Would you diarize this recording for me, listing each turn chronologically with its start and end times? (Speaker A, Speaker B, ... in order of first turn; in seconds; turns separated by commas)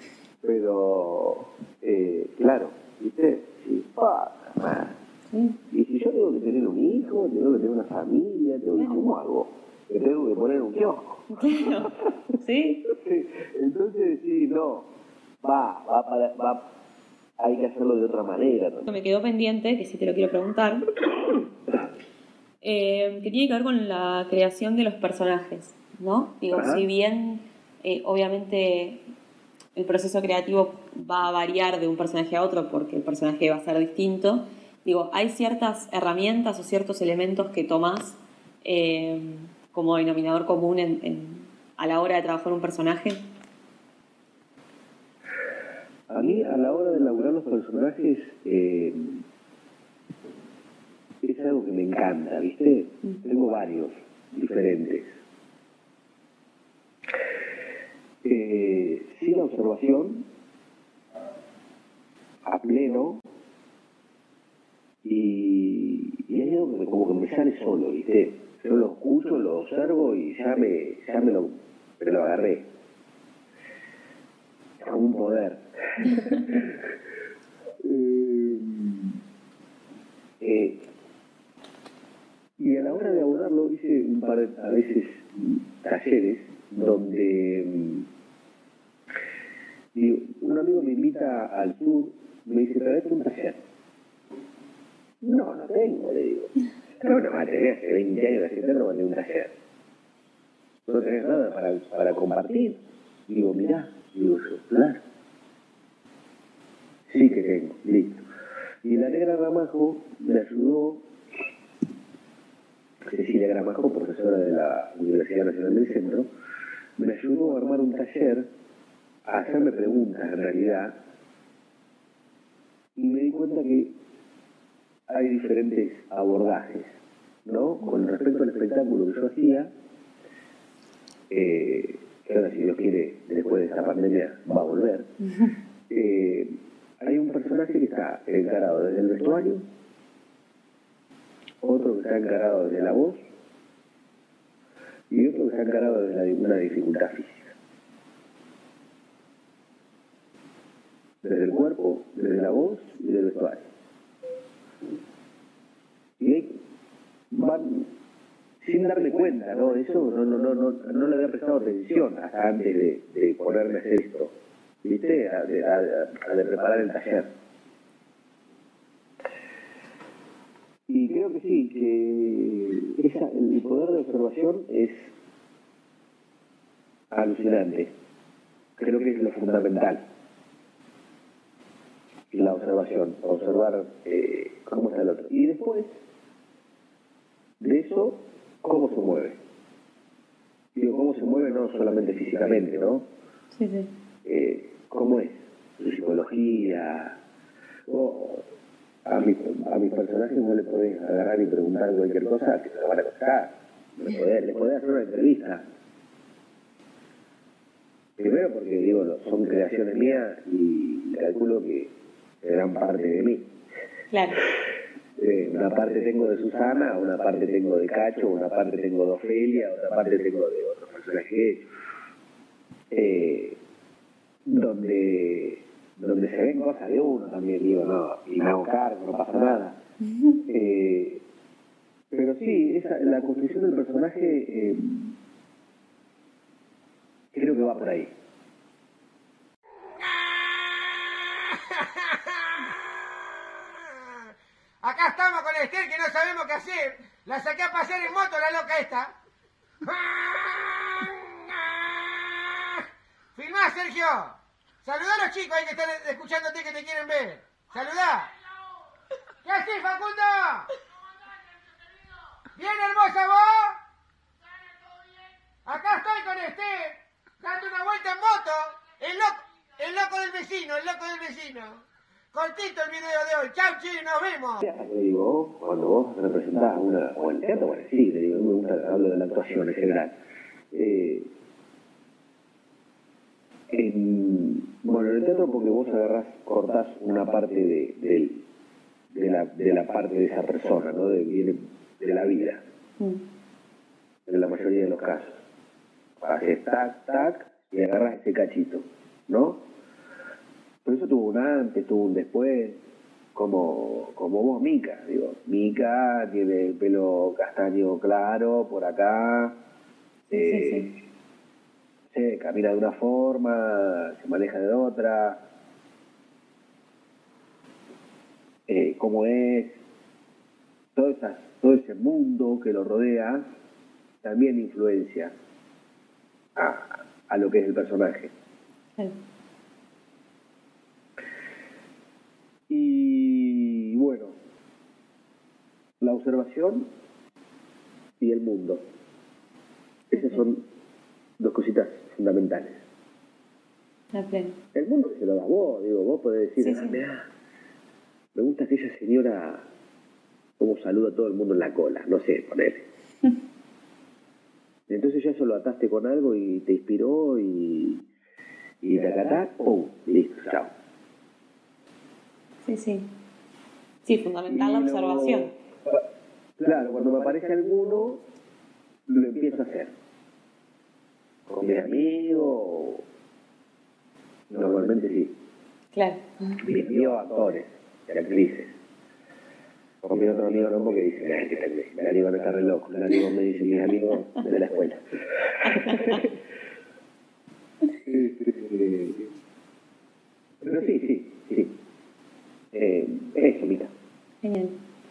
Speaker A: 0.4-5.0, Speaker B: 5.3-5.6, Speaker A: 5.7-11.2, Speaker B: 11.3-12.8, Speaker A: 12.8-14.9, Speaker A: 15.4-16.6, Speaker A: 17.4-18.9, Speaker B: 18.9-20.9, Speaker B: 22.6-29.0, Speaker A: 26.5-26.9, Speaker B: 29.7-43.2, Speaker A: 46.1-49.2, Speaker A: 51.2-55.1, Speaker A: 58.2-60.2, Speaker A: 62.5-63.2, Speaker A: 65.0-72.6, Speaker A: 74.8-76.8, Speaker A: 77.8-79.1, Speaker A: 80.4-80.8, Speaker A: 82.6-88.1, Speaker A: 89.9-93.6, Speaker A: 95.2-99.5, Speaker A: 100.9-105.0, Speaker A: 107.1-108.2, Speaker A: 108.8-111.0, Speaker A: 113.0-116.3, Speaker A: 117.0-118.4, Speaker A: 119.3-120.9, Speaker A: 123.0-123.9, Speaker A: 125.1-126.9, Speaker A: 127.5-129.7, Speaker A: 131.3-135.1, Speaker A: 135.9-139.6, Speaker A: 141.6-143.2, Speaker A: 145.1-147.5, Speaker A: 151.2-153.7, Speaker A: 156.2-156.5, Speaker A: 157.3-157.9, Speaker A: 158.6-164.3, Speaker A: 164.8-167.3, Speaker A: 170.9-175.1, Speaker A: 177.1-177.9, Speaker A: 178.8-180.0, Speaker A: 182.3-186.0, Speaker A: 187.6-189.4, Speaker A: 190.7-193.1, Speaker B: 193.5-193.9, Speaker A: 194.2-197.2, Speaker A: 197.9-198.4, Speaker A: 199.1-205.6, Speaker A: 208.2-211.9, Speaker A: 212.4-213.5, Speaker B: 214.1-214.4, Speaker A: 215.2-221.6, Speaker A: 222.9-223.6, Speaker A: 224.4-229.8, Speaker A: 230.4-231.2, Speaker A: 232.1-235.1, Speaker A: 237.3-238.1, Speaker C: 240.0-242.7, Speaker C: 244.8-249.1, Speaker C: 249.8-258.3, Speaker C: 259.4-260.8, Speaker C: 262.6-263.8, Speaker C: 265.6-274.6, Speaker A: 274.6-280.1, Speaker A: 280.7-281.3, Speaker A: 283.7-288.4, Speaker A: 289.1-292.6, Speaker B: 293.0-293.2, Speaker A: 294.3-295.4, Speaker A: 296.2-299.6, Speaker A: 300.8-302.8, Speaker A: 303.3-309.6, Speaker B: 310.3-310.9, Speaker A: 310.3-310.9, Speaker A: 312.1-315.4, Speaker A: 318.7-319.8, Speaker A: 320.9-323.4, Speaker A: 324.2-325.3, Speaker A: 326.6-328.3, Speaker A: 332.7-334.4, Speaker A: 336.0-336.9, Speaker A: 338.2-338.8, Speaker A: 340.1-340.6, Speaker B: 340.1-340.4, Speaker A: 341.4-342.8, Speaker B: 344.1-344.6, Speaker A: 344.7-347.2, Speaker B: 346.6-347.0, Speaker A: 348.3-349.7, Speaker A: 350.6-352.9, Speaker A: 354.9-358.0, Speaker A: 358.8-360.7, Speaker B: 362.6-363.1, Speaker B: 364.0-365.5, Speaker A: 364.5-366.0, Speaker A: 366.6-368.2, Speaker A: 369.1-369.9, Speaker A: 371.5-373.0, Speaker A: 374.5-375.3, Speaker B: 375.9-376.6, Speaker A: 376.6-378.7, Speaker A: 380.0-386.3, Speaker B: 385.7-386.2, Speaker A: 388.1-389.3, Speaker A: 390.6-391.7, Speaker A: 392.7-393.9, Speaker B: 394.4-394.8